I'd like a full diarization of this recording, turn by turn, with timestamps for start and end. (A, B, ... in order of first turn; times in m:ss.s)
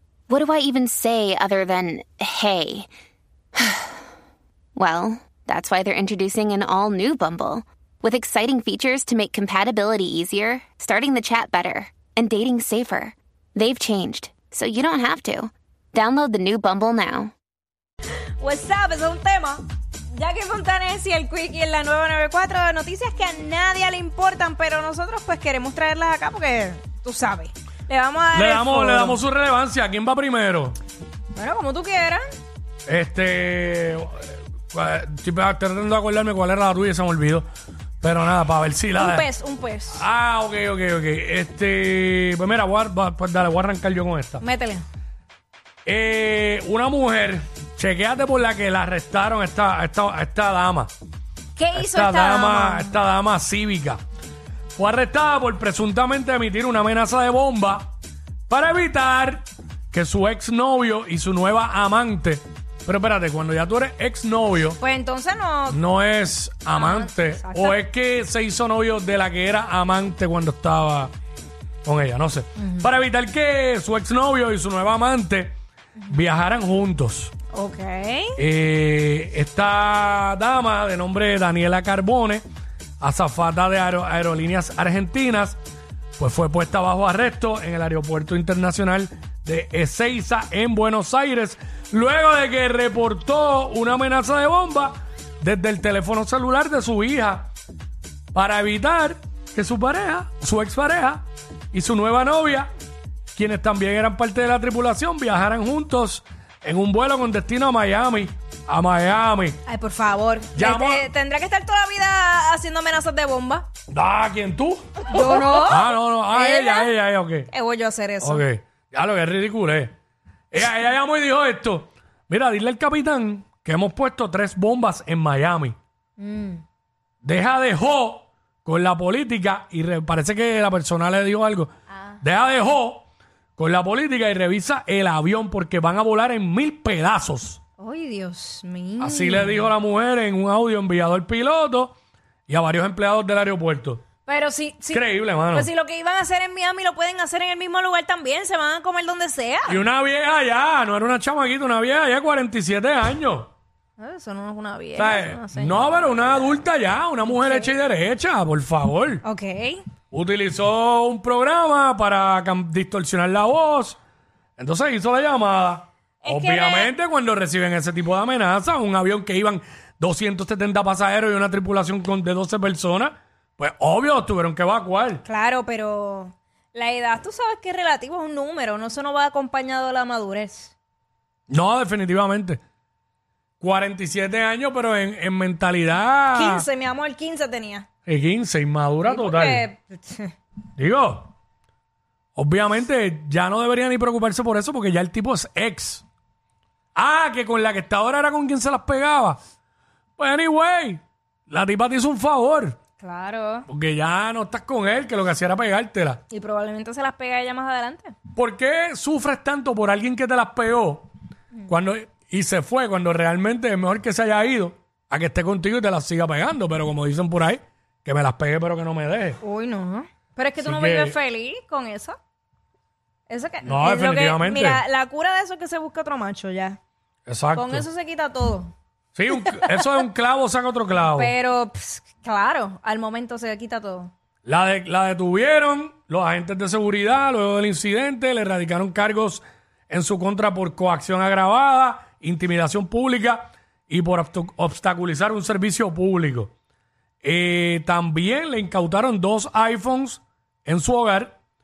0:00.3-0:02.9 A
0:03.6-0:04.0 A
0:04.8-0:17.3 A
0:18.4-0:29.2 B
0:28.3-0:30.8 C
0:31.3-0:32.2 B
0:32.9-0:37.5 C
0:38.0-0:39.3 C
0:39.0-0:40.0 B
0:39.9-0:44.4 C
0:44.4-0:44.8 B
0:45.9-0:50.9 C
0:51.6-0:53.0 B
0:51.7-0:54.0 C
0:54.8-0:57.9 C
0:58.5-1:04.8 C
1:04.8-1:05.8 B
1:05.7-1:11.1 C
1:06.7-1:07.8 B
1:11.8-1:15.6 C
1:12.6-1:12.9 B
1:16.1-1:17.3 C
1:17.5-1:18.4 B
1:18.4-1:22.4 C
1:23.0-1:25.6 C
1:26.2-1:37.5 C
1:38.3-1:42.7 C
1:43.4-1:49.6 C
1:49.7-1:53.7 B
1:50.6-1:51.1 C
1:53.9-1:57.5 C
1:55.1-1:56.9 B
1:57.5-1:58.4 B
1:58.2-1:59.9 C
2:00.5-2:05.8 C
2:06.2-2:06.6 B
2:07.2-2:11.7 C
2:11.9-2:12.2 B
2:12.2-2:13.1 C
2:13.6-2:17.6 C
2:17.8-2:19.7 B
2:19.0-2:22.0 C
2:22.5-2:24.0 C
2:24.3-2:29.8 B
2:24.9-2:25.7 C
2:29.7-2:33.5 C
2:34.0-2:35.8 B
2:35.0-2:39.2 C
2:37.2-2:37.7 B
2:39.2-2:39.8 B
2:40.1-2:44.0 C
2:44.6-2:55.2 C
2:46.2-2:46.9 B
2:55.2-3:00.7 B
3:01.5-3:02.6 C
3:03.6-3:06.7 C
3:06.3-3:07.9 B
3:08.1-3:09.6 C
3:09.1-3:10.3 B
3:10.8-3:11.3 C
3:12.4-3:16.0 C
3:17.0-3:19.4 C
3:20.2-3:22.8 C
3:23.0-3:23.7 B
3:23.7-3:26.2 C
3:26.3-3:28.2 B
3:28.4-3:31.1 C
3:31.7-3:39.4 C
3:39.4-3:42.2 B
3:40.6-3:41.2 C
3:43.3-3:46.8 B
3:43.6-3:44.8 C
3:47.3-3:47.9 C
3:47.5-3:48.7 B
3:49.2-3:51.3 C
3:49.4-3:49.9 B
3:51.1-3:54.1 B
3:54.4-4:06.5 C
4:07.2-4:11.4 C